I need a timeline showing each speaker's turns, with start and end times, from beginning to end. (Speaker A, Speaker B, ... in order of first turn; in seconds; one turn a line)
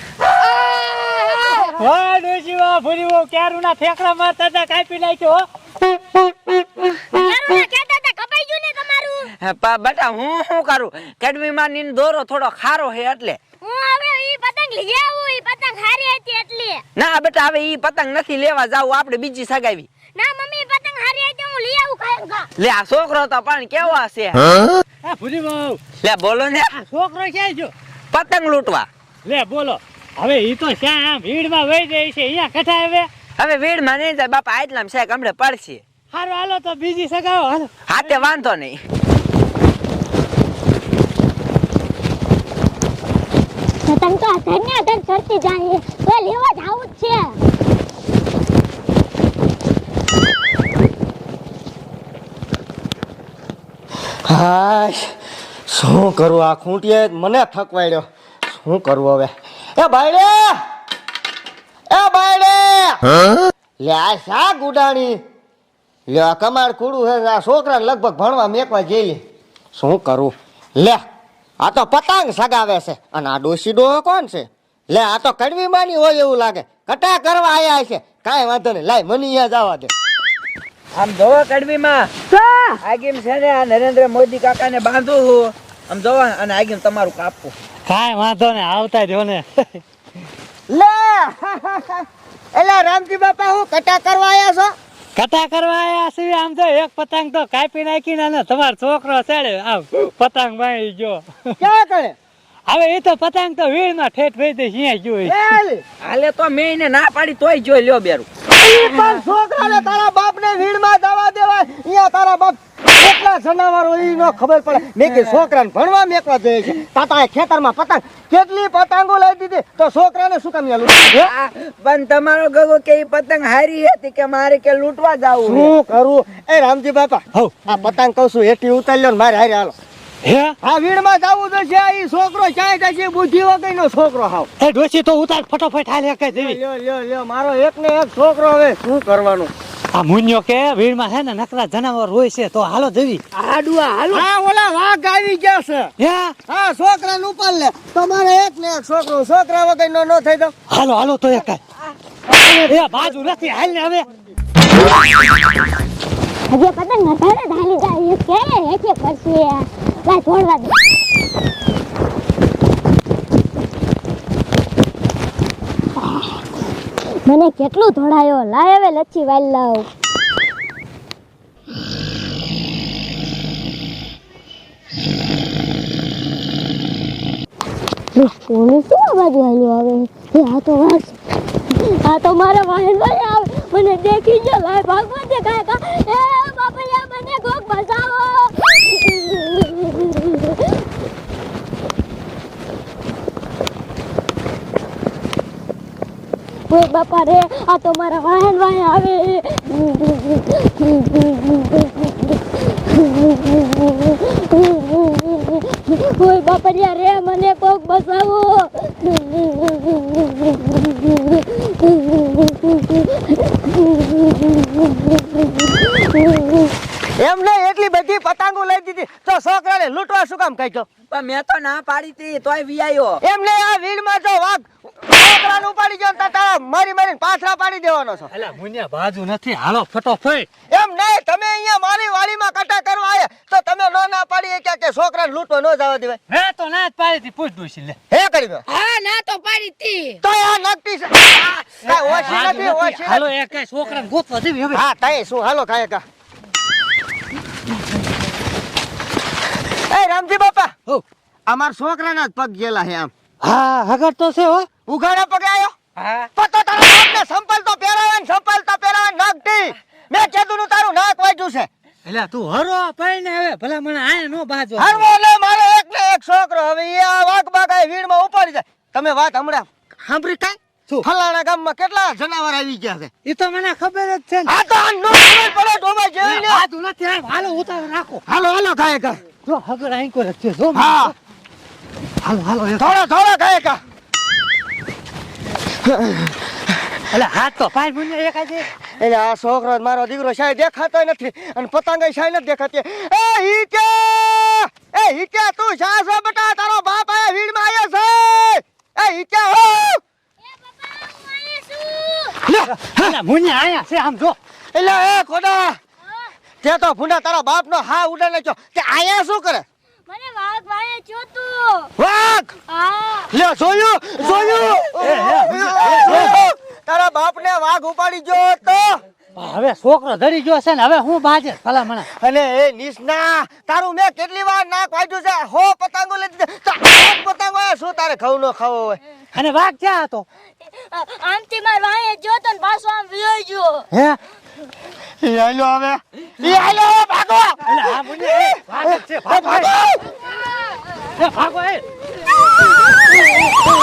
Speaker A: 0.2-1.7
Speaker B: 1.7-5.4
Speaker C: 6.9-9.3
Speaker D: 9.4-13.4
Speaker C: 13.6-16.8
Speaker D: 16.9-19.9
Speaker C: 20.1-22.5
Speaker D: 22.6-24.8
Speaker B: 25.0-25.8
Speaker D: 26.0-26.7
Speaker B: 26.7-27.7
Speaker D: 28.1-28.9
Speaker B: 29.2-33.1
Speaker D: 33.4-35.8
Speaker B: 36.1-38.2
Speaker D: 37.9-38.8
Speaker C: 43.9-47.4
Speaker E: 54.2-55.1
Speaker E: 55.7-60.6
Speaker E: 61.9-63.0
Speaker E: 63.8-65.2
Speaker E: 66.1-69.2
Speaker E: 69.7-71.0
Speaker E: 71.6-79.9
Speaker D: 80.9-82.1
Speaker D: 82.8-87.5
Speaker B: 87.8-89.8
Speaker E: 90.7-94.7
Speaker B: 95.2-101.5
Speaker E: 101.6-102.2
Speaker B: 102.7-105.6
Speaker E: 105.2-105.8
Speaker D: 106.0-109.2
Speaker E: 108.6-121.2
Speaker D: 121.1-125.7
Speaker E: 125.4-129.7
Speaker B: 130.2-130.5
Speaker E: 130.6-134.5
Speaker B: 134.6-136.6
Speaker E: 136.3-139.5
Speaker B: 139.9-143.2
Speaker A: 143.3-144.1
Speaker E: 144.1-145.9
Speaker B: 146.0-146.3
Speaker E: 146.5-150.5
Speaker B: 150.7-151.6
Speaker B: 152.4-154.1
Speaker C: 156.5-160.8
Speaker C: 166.0-166.3
Speaker C: 167.2-169.9
Speaker C: 178.1-190.8
Speaker C: 196.7-216.7
Speaker E: 217.2-220.9
Speaker D: 221.1-223.2
Speaker E: 223.2-228.3
Speaker B: 228.3-230.5
Speaker E: 230.7-236.2
Speaker B: 236.3-238.0
Speaker E: 238.1-238.6
Speaker A: 238.7-240.2
Speaker E: 240.2-243.2
Speaker B: 241.8-244.8
Speaker E: 244.7-246.0
Speaker E: 249.7-250.7
Speaker E: 251.5-253.1
Speaker B: 253.4-254.7
Speaker E: 254.9-255.7
Speaker D: 255.9-256.3
Speaker E: 256.4-261.7
Speaker B: 262.1-265.0
Speaker E: 264.8-269.7
Speaker B: 270.0-271.0
Speaker E: 271.0-273.1
Speaker B: 273.2-274.5
Speaker E: 274.4-276.6
Speaker B: 276.2-278.2
Speaker E: 278.3-279.2
Speaker B: 279.4-281.1
Speaker E: 280.7-281.1
Speaker B: 282.2-282.9
Speaker E: 282.8-283.8
Speaker E: 285.8-286.4
Speaker B: 287.1-288.7
Speaker E: 288.9-300.0
Speaker C: 300.4-302.4
Speaker E: 302.4-303.2
Speaker B: 302.6-304.4
Speaker E: 304.7-305.8
Speaker C: 306.0-306.3
Speaker E: 306.6-309.6
Speaker C: 310.1-311.9
Speaker E: 312.0-312.5
Speaker C: 312.7-313.3
Speaker E: 313.3-319.0
Speaker C: 314.2-314.8
Speaker B: 315.0-316.4
Speaker B: 319.4-322.1
Speaker E: 322.1-329.0
Speaker B: 329.3-330.2
Speaker C: 330.6-333.9
Speaker B: 333.9-334.2
Speaker E: 335.2-340.2
Speaker B: 337.6-339.7
Speaker B: 341.1-342.0